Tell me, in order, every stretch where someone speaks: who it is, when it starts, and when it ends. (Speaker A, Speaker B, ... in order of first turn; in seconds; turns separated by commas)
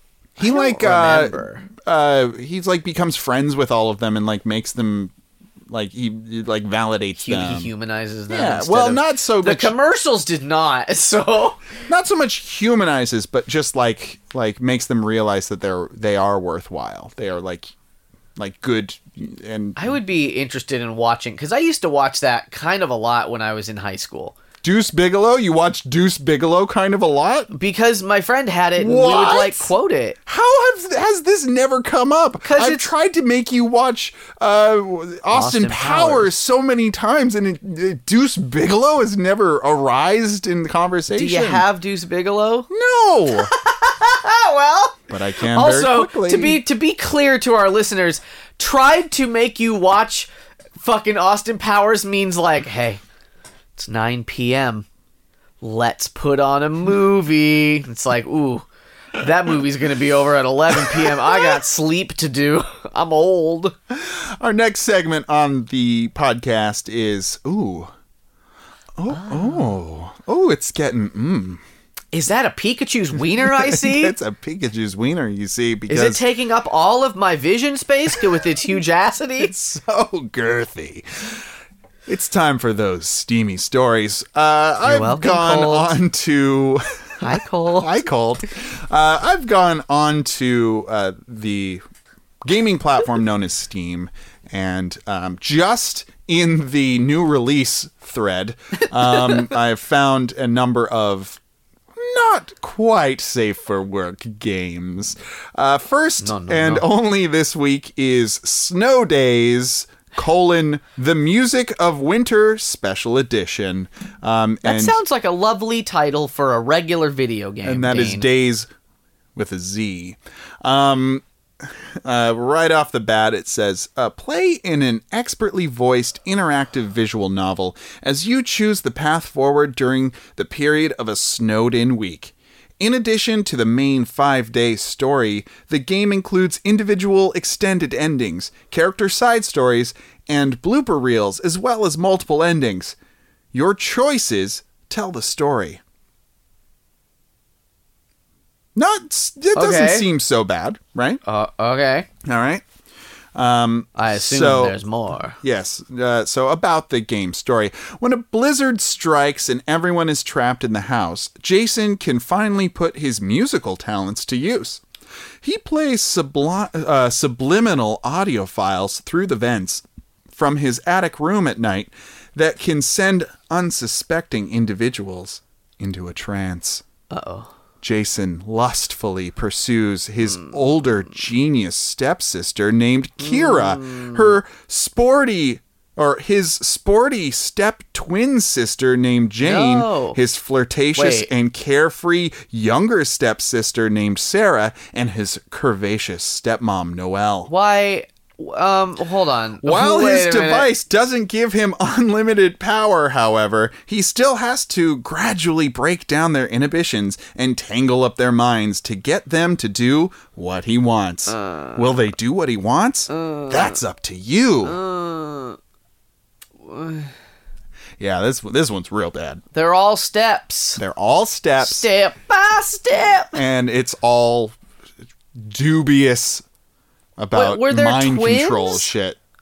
Speaker A: 0.4-1.6, Speaker B: 0.4-5.1, Speaker B: 5.7-7.7, Speaker A: 7.2-11.6, Speaker B: 8.3-9.7, Speaker B: 11.9-17.7, Speaker B: 18.4-19.9, Speaker A: 19.8-24.4, Speaker B: 24.6-27.5, Speaker A: 27.5-30.2, Speaker B: 28.8-29.7, Speaker B: 30.2-41.6, Speaker A: 32.4-32.9, Speaker A: 35.3-36.3, Speaker A: 41.1-42.7, Speaker B: 42.7-43.5, Speaker A: 43.3-53.0, Speaker B: 45.1-46.6, Speaker A: 53.8-54.9, Speaker A: 55.6-63.7, Speaker B: 63.9-67.9, Speaker B: 69.0-71.6, Speaker A: 72.1-74.1, Speaker B: 73.4-76.2, Speaker A: 75.9-79.5, Speaker B: 79.4-81.4, Speaker B: 82.1-91.8, Speaker A: 84.8-85.9, Speaker A: 87.2-88.0, Speaker B: 92.4-101.4, Speaker A: 99.0-99.5, Speaker B: 101.9-115.0, Speaker A: 106.2-106.9, Speaker A: 114.6-118.2, Speaker B: 117.6-118.7, Speaker B: 119.3-121.2, Speaker B: 122.0-142.9, Speaker B: 143.5-145.8, Speaker B: 148.8-151.2, Speaker A: 149.5-150.1, Speaker A: 151.2-152.1, Speaker B: 152.2-152.6, Speaker B: 153.3-154.8, Speaker A: 153.9-155.4, Speaker B: 155.4-164.8, Speaker B: 165.4-176.8, Speaker A: 177.1-177.5, Speaker B: 177.8-197.5, Speaker A: 183.2-184.4, Speaker A: 189.4-190.2, Speaker A: 190.9-191.3, Speaker A: 197.5-200.7, Speaker B: 199.6-214.8, Speaker A: 211.3-211.9, Speaker A: 213.1-213.8, Speaker A: 214.6-215.6, Speaker A: 216.6-217.1, Speaker B: 218.0-219.4, Speaker A: 219.5-220.8, Speaker B: 220.8-221.9, Speaker A: 221.6-223.4, Speaker B: 223.3-224.5, Speaker B: 225.4-226.4, Speaker B: 227.2-229.2, Speaker A: 227.3-228.9